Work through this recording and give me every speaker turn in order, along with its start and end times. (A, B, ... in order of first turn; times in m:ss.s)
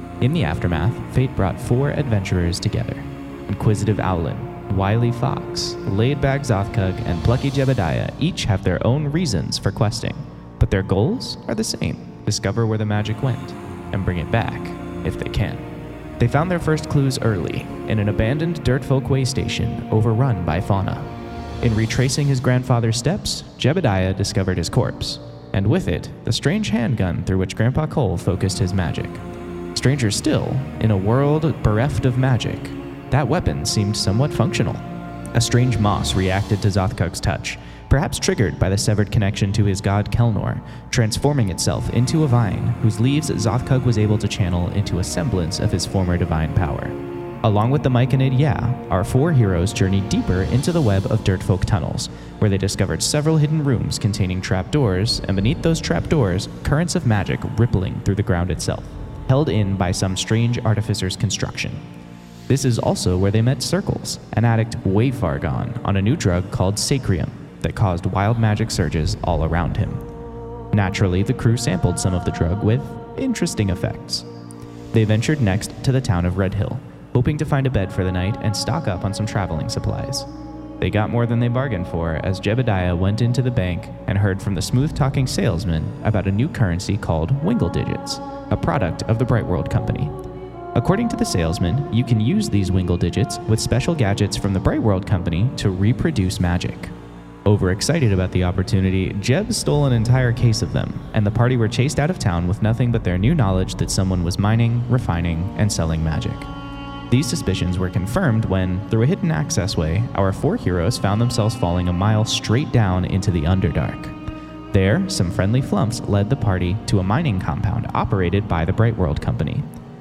0:00.2-0:29.2 A
0:29.7-1:01.8 A
1:02.5-1:10.1 A
1:10.7-1:14.3 A
1:14.9-1:20.3 A
1:20.8-1:30.1 A
1:30.7-1:36.9 A
1:37.4-1:46.5 A
1:47.1-1:54.2 A
1:54.7-1:59.7 A